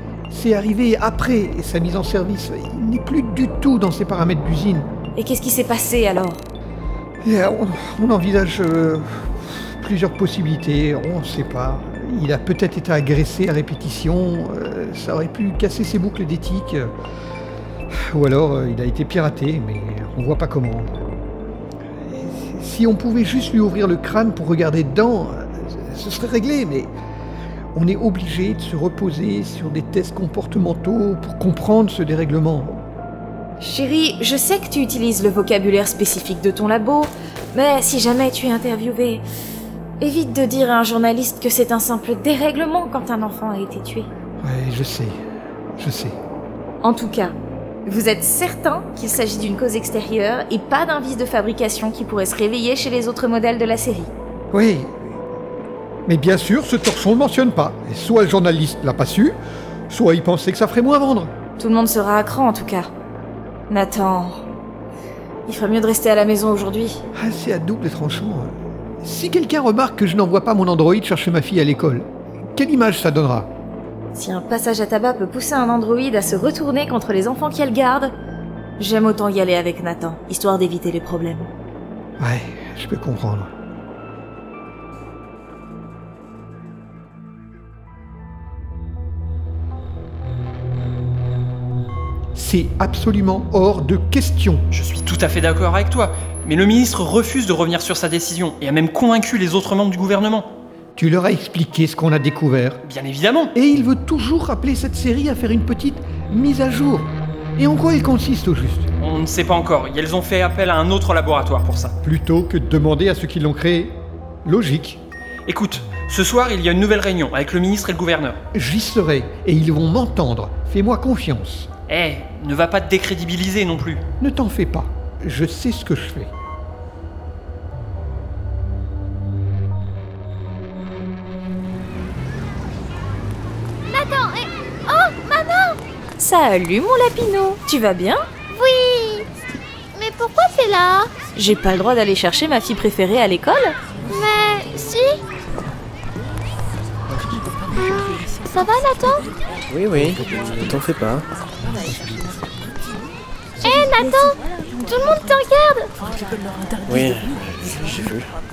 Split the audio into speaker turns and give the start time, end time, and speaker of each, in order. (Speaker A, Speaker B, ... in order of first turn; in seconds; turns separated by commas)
Speaker A: 0.3-4.9, Speaker B: 5.2-6.4, Speaker A: 7.2-16.9, Speaker A: 17.9-20.9, Speaker A: 22.1-26.9, Speaker A: 27.8-32.8, Speaker B: 33.6-39.2, Speaker B: 40.0-44.1, Speaker A: 44.4-45.2, Speaker A: 45.8-46.2, Speaker B: 46.8-54.1, Speaker A: 54.5-55.0, Speaker A: 56.1-59.4, Speaker A: 59.9-61.3, Speaker B: 61.6-62.9, Speaker B: 63.7-64.4, Speaker B: 65.5-67.0, Speaker A: 67.2-73.5, Speaker B: 74.1-78.1, Speaker B: 78.8-81.5, Speaker A: 82.2-83.5, Speaker A: 92.3-94.7, Speaker C: 94.7-100.5, Speaker A: 101.0-102.8, Speaker C: 102.8-103.5, Speaker A: 103.5-108.9, Speaker C: 109.0-111.9, Speaker A: 112.0-115.0, Speaker C: 115.5-118.4, Speaker A: 118.5-121.7, Speaker C: 121.9-124.0, Speaker A: 124.2-126.3, Speaker D: 133.9-135.8, Speaker B: 136.2-138.2, Speaker D: 138.5-139.3, Speaker D: 139.9-141.1, Speaker B: 141.4-143.8, Speaker D: 144.1-145.2, Speaker D: 147.7-149.3, Speaker E: 149.7-151.2, Speaker D: 153.6-155.9, Speaker E: 156.9-158.2